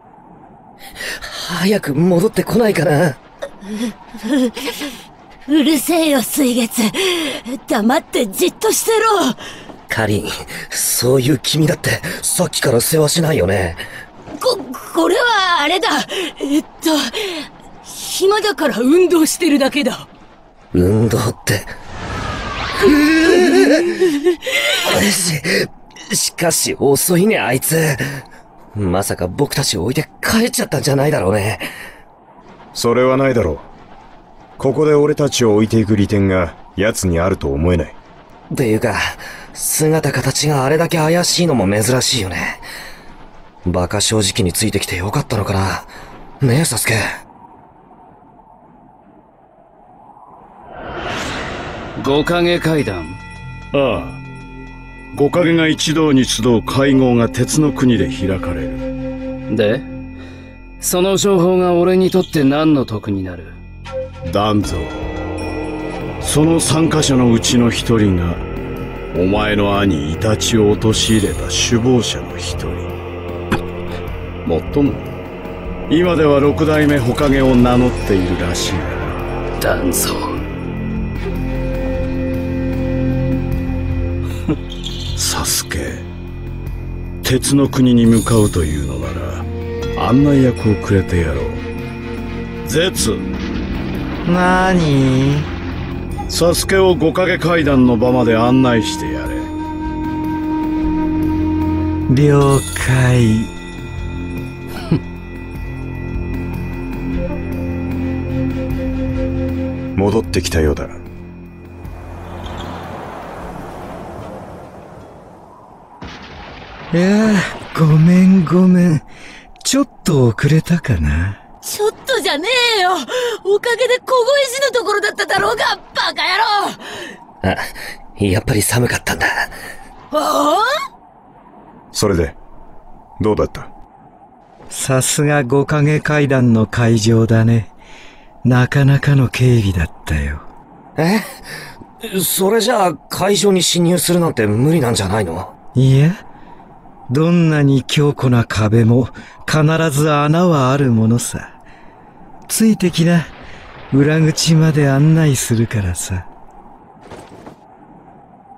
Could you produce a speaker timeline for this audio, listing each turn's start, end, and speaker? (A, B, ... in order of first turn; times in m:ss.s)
0:01.2-0:03.2 A
0:04.2-0:04.8 B
0:05.5-0:09.4 B
0:09.9-0:13.8 A
0:14.4-0:20.1 B
0:20.7-0:21.7 A
0:22.8-0:24.0 A
0:24.8-0:28.2 A
0:28.7-0:31.7 A
0:32.7-0:33.7 C
0:34.6-0:38.0 C
0:38.5-0:42.6 A
0:43.6-0:47.0 A
0:52.0-0:53.2 D
0:53.7-0:54.2 E
0:55.1-0:58.9 E
0:59.5-0:59.9 D
1:00.8-1:03.6 D
1:04.2-1:05.0 E
1:06.2-1:08.4 E
1:09.1-1:12.9 E
1:14.4-1:15.1 E
1:15.9-1:19.2 E
1:19.6-1:20.4 D
1:25.1-1:26.0 E
1:27.2-1:31.6 E
1:32.6-1:33.2 E
1:34.2-1:35.5 F
1:36.3-1:39.5 E
1:42.1-1:43.5 F
1:50.0-1:51.0 C
1:56.9-1:59.0 F
1:59.6-2:01.4 F
2:01.6-2:07.1 B
2:07.4-2:09.5 A
2:10.1-2:10.7 B
2:11.9-2:12.4 C
2:13.2-2:13.7 C
2:14.7-2:17.7 F
2:18.4-2:20.4 F
2:21.0-2:21.2 A
2:22.0-2:25.5 A
2:25.7-2:26.2 F
2:27.1-2:31.5 F
2:32.5-2:33.3 F
2:33.9-2:36.3 F